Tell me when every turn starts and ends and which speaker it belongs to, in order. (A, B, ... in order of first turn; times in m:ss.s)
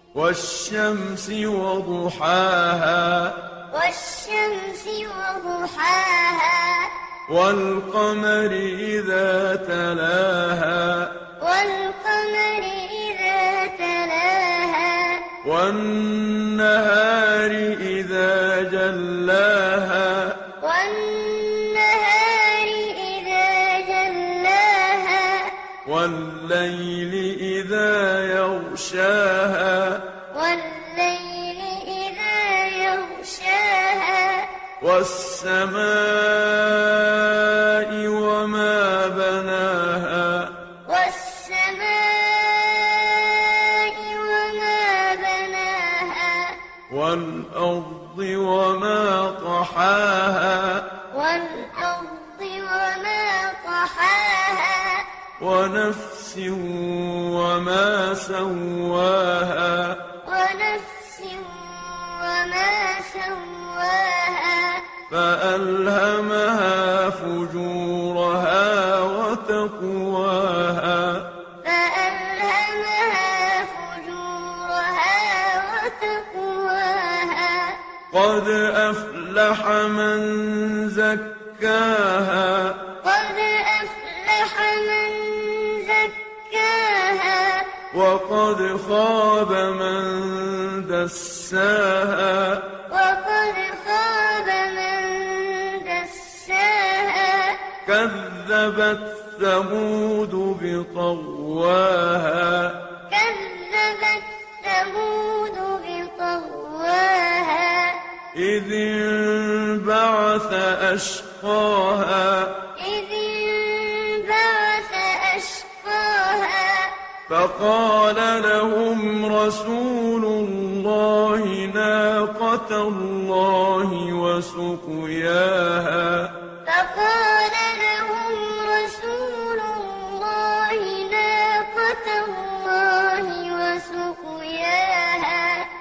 0:00.1-0:03.4 A
0:03.7-0:07.0 B
0:07.3-0:11.2 A
0:11.4-0:15.3 B
0:15.4-0:20.4 A
0:20.6-0:25.6 B
0:25.8-0:30.1 A
0:30.3-0:34.5 B
0:34.8-0:40.6 A
0:40.9-0:46.6 B
0:46.9-0:51.0 A
0:51.1-0:55.1 B
0:55.4-1:00.1 A
1:00.2-1:04.9 B
1:05.1-1:11.3 A
1:11.6-1:17.8 B
1:18.1-1:22.8 A
1:23.0-1:27.8 B
1:27.9-1:32.7 A
1:32.9-1:37.7 B
1:37.8-1:42.8 A
1:43.1-1:48.0 B
1:48.3-1:52.6 A
1:52.8-1:57.0 B
1:57.3-2:06.3 A
2:06.7-2:15.7 B